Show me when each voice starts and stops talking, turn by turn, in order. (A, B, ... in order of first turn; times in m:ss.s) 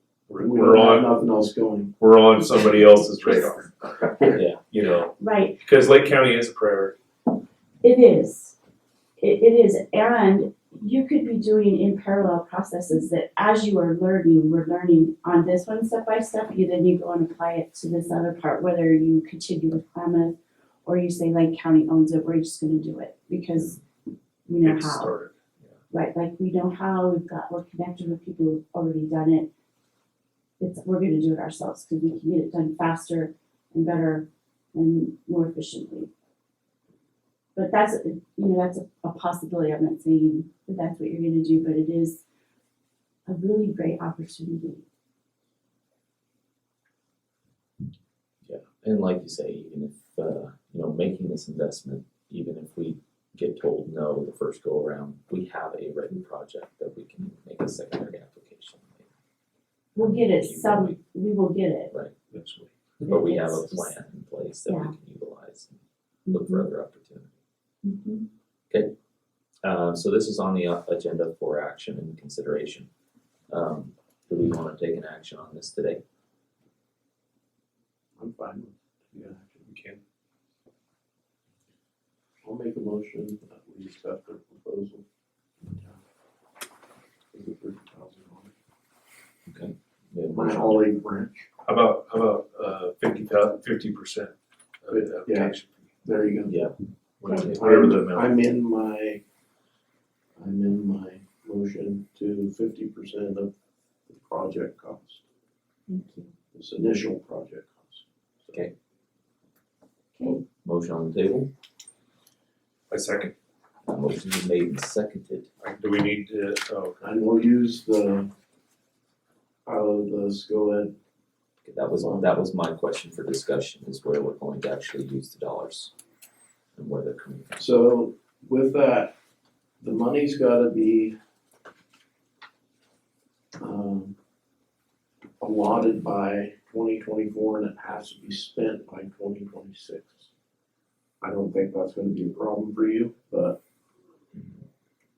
0:00.3-0:01.1 A
0:00.4-0:01.9 B
0:02.0-0:03.7 A
0:02.6-0:03.7 C
0:04.4-0:04.6 D
0:04.6-0:07.0 A
0:05.2-0:05.6 C
0:07.8-0:08.6 C
0:09.2-0:23.8 C
0:24.5-0:25.1 C
0:24.6-0:25.7 A
0:25.9-0:29.5 C
0:30.6-0:36.1 C
0:37.6-0:42.2 C
0:43.3-0:44.8 C
0:48.4-0:59.1 D
1:00.0-1:01.9 C
1:00.0-1:01.0 D
1:02.3-1:02.7 A
1:03.1-1:07.3 D
1:03.1-1:03.9 C
1:04.6-1:04.9 C
1:06.3-1:06.7 C
1:07.8-1:08.3 C
1:09.6-1:12.9 D
1:13.5-1:16.0 D
1:18.2-1:19.7 B
1:19.7-1:20.0 A
1:22.4-1:25.0 B
1:25.6-1:26.0 B
1:27.3-1:28.5 B
1:29.5-1:30.9 D
1:30.3-1:31.5 B
1:31.6-1:35.9 A
1:34.9-1:36.6 B
1:36.5-1:36.8 D
1:37.2-1:38.4 A
1:37.2-1:37.5 C
1:37.4-1:39.2 B
1:40.4-1:43.5 B
1:44.1-1:45.2 B
1:45.9-1:46.3 C
1:46.5-1:48.6 B
1:50.2-1:51.5 D
1:52.9-1:53.3 A
1:53.9-1:55.5 D
1:55.6-1:57.0 A
1:57.0-1:58.3 B
1:59.7-2:01.0 B
2:01.6-2:05.9 D
2:02.0-2:02.4 B
2:06.8-2:07.6 D
2:07.6-2:09.1 B
2:09.8-2:11.2 B
2:13.6-2:14.2 B
2:15.4-2:20.3 B
2:21.2-2:23.6 B